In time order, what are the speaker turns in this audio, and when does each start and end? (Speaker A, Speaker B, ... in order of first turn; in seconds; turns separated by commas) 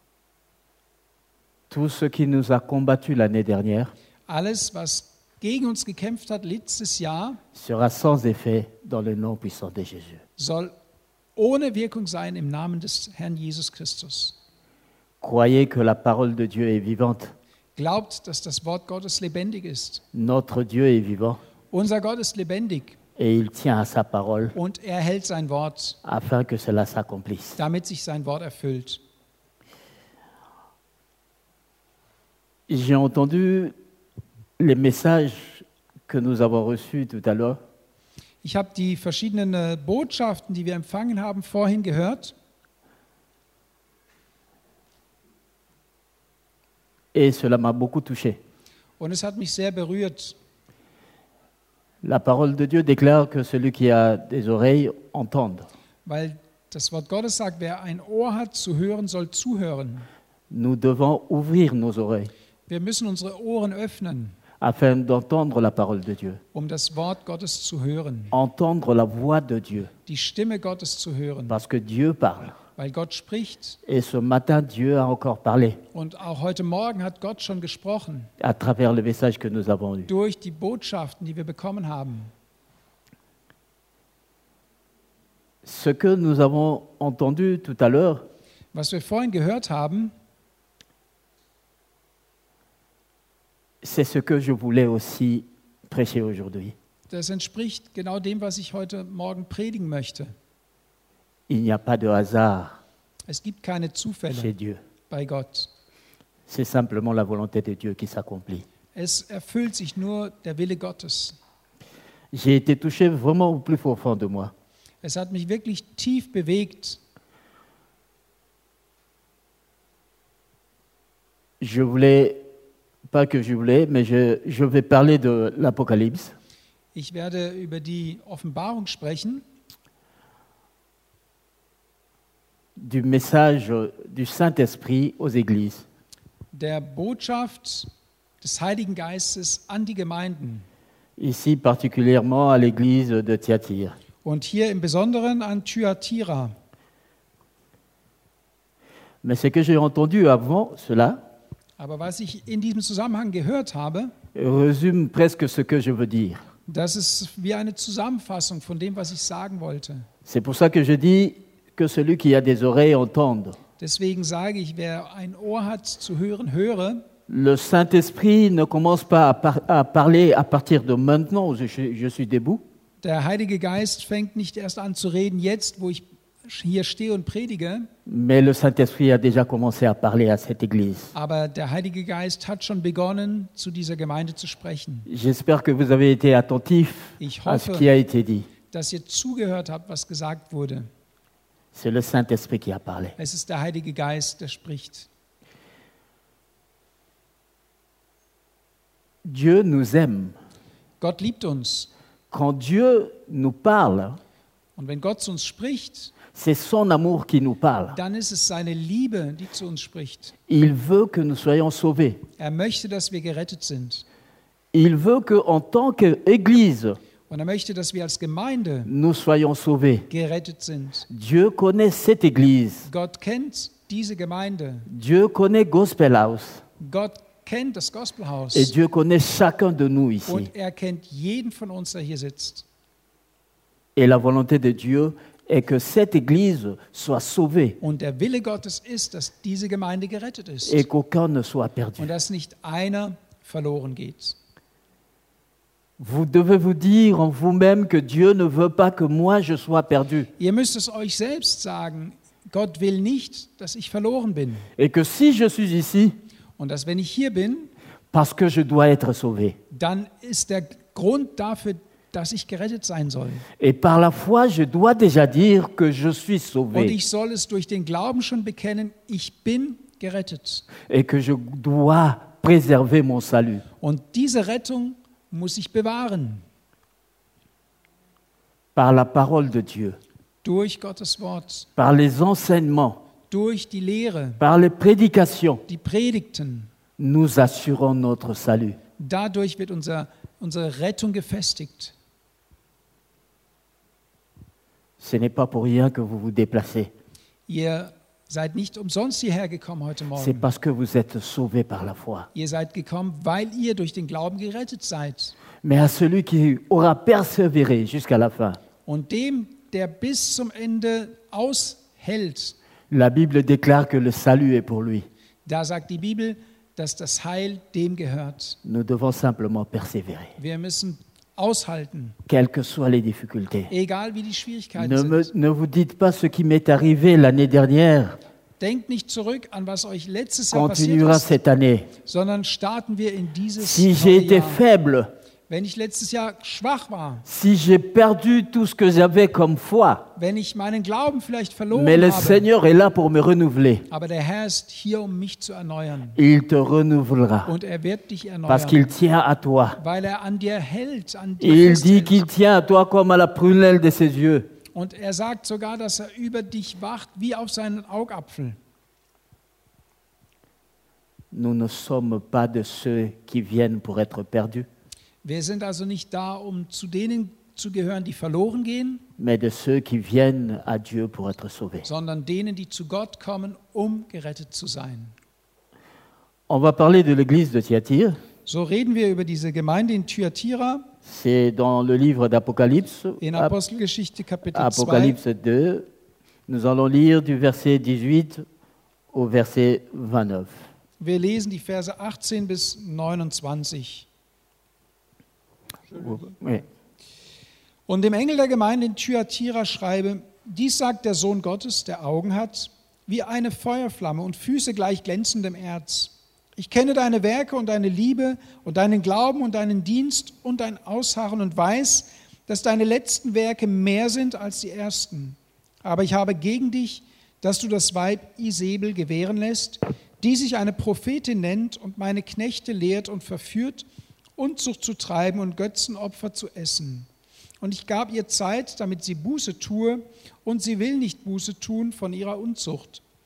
Speaker A: 1.7-3.9, Speaker B: 4.3-7.4, Speaker A: 7.5-10.2, Speaker B: 10.4-10.7, Speaker B: 11.4-14.4, Speaker A: 15.2-17.3, Speaker B: 17.8-20.0, Speaker A: 20.1-21.4, Speaker B: 21.7-23.0, Speaker A: 23.2-24.6, Speaker B: 24.5-26.0, Speaker A: 26.0-27.6, Speaker B: 27.6-29.0, Speaker A: 32.7-33.7, Speaker A: 34.6-37.6, Speaker B: 38.4-42.3, Speaker A: 47.1-48.4, Speaker B: 49.0-50.4, Speaker A: 52.0-55.7, Speaker B: 56.0-60.1, Speaker A: 60.5-62.3, Speaker B: 62.7-64.4, Speaker A: 64.6-66.4, Speaker B: 66.5-68.4, Speaker A: 68.3-69.9, Speaker B: 70.1-71.6, Speaker A: 71.5-72.6, Speaker B: 72.8-73.8, Speaker A: 73.9-75.8, Speaker B: 75.9-78.3, Speaker A: 78.4-80.1, Speaker B: 80.1-82.3, Speaker A: 85.6-88.3, Speaker B: 88.7-90.1, Speaker A: 93.8-96.8, Speaker B: 97.1-100.3, Speaker A: 101.5-102.8, Speaker B: 103.3-104.5, Speaker A: 104.3-104.8, Speaker B: 105.1-105.7, Speaker A: 106.5-108.7, Speaker B: 109.0-111.4, Speaker A: 112.3-114.5, Speaker B: 115.0-117.0, Speaker A: 121.6-122.4, Speaker A: 123.1-126.3, Speaker B: 126.9-129.4, Speaker A: 132.8-135.9, Speaker B: 136.5-137.9, Speaker B: 138.4-140.7, Speaker A: 141.2-144.0, Speaker B: 144.2-146.6, Speaker A: 149.2-151.2, Speaker B: 151.8-154.2, Speaker A: 154.3-156.4, Speaker B: 156.7-160.1, Speaker A: 160.2-163.6, Speaker B: 163.8-167.0, Speaker A: 167.3-172.6, Speaker B: 173.0-177.9, Speaker A: 178.1-181.1, Speaker B: 181.1-185.1, Speaker A: 185.1-188.5, Speaker B: 187.2-187.9, Speaker B: 188.7-190.9, Speaker A: 191.7-193.2, Speaker B: 193.2-195.1, Speaker A: 199.2-200.4, Speaker B: 201.0-201.9, Speaker A: 202.3-204.2, Speaker B: 204.8-206.2, Speaker A: 206.3-208.0, Speaker B: 207.9-210.4, Speaker A: 210.5-212.2, Speaker B: 212.4-214.1, Speaker A: 214.7-217.0, Speaker B: 217.3-218.9, Speaker A: 218.9-220.1, Speaker B: 220.1-221.1, Speaker A: 221.1-222.9, Speaker B: 222.9-224.9, Speaker A: 224.9-226.6, Speaker B: 226.8-228.7, Speaker A: 228.5-230.5, Speaker B: 230.3-232.7, Speaker A: 234.0-237.8, Speaker B: 237.8-240.8, Speaker A: 240.7-242.1, Speaker B: 242.0-244.4, Speaker A: 246.0-250.3, Speaker B: 250.4-254.7, Speaker A: 254.8-256.2, Speaker B: 256.6-257.7, Speaker A: 258.1-259.6, Speaker B: 259.7-263.4, Speaker A: 263.6-266.9, Speaker B: 266.7-270.7, Speaker A: 270.9-273.6, Speaker B: 273.8-276.4, Speaker A: 278.8-280.0, Speaker B: 280.4-281.7, Speaker A: 281.8-283.0, Speaker B: 283.3-284.4, Speaker A: 284.4-285.6, Speaker B: 285.7-286.7, Speaker A: 287.0-288.8, Speaker B: 289.0-291.9, Speaker A: 295.0-296.9, Speaker B: 297.5-300.5, Speaker A: 300.2-302.3, Speaker B: 302.4-305.4, Speaker A: 305.6-308.6, Speaker B: 308.9-312.6, Speaker A: 312.9-315.1, Speaker B: 315.4-318.6, Speaker A: 318.6-320.4, Speaker B: 320.4-322.2, Speaker A: 322.3-323.7, Speaker B: 323.7-325.3, Speaker A: 324.8-328.2, Speaker B: 328.6-331.3, Speaker A: 330.5-331.9, Speaker B: 332.1-334.6, Speaker A: 333.6-335.1, Speaker B: 335.5-337.2, Speaker A: 337.2-340.1, Speaker B: 340.2-342.4, Speaker A: 341.7-343.9, Speaker B: 343.9-346.2, Speaker A: 346.2-347.5, Speaker B: 347.4-348.9, Speaker A: 348.5-349.8, Speaker B: 349.8-352.2, Speaker A: 351.4-354.5, Speaker B: 354.7-358.6, Speaker A: 361.3-364.7, Speaker B: 365.2-369.1, Speaker A: 369.2-371.9, Speaker B: 371.8-375.1, Speaker A: 376.5-378.2, Speaker B: 378.4-380.9, Speaker A: 381.0-383.5, Speaker B: 383.2-385.2, Speaker A: 384.5-385.9, Speaker A: 386.5-388.4, Speaker A: 389.1-390.6, Speaker B: 391.0-394.1, Speaker A: 395.9-396.6, Speaker B: 397.9-423.9, Speaker B: 424.4-427.1, Speaker B: 427.6-433.0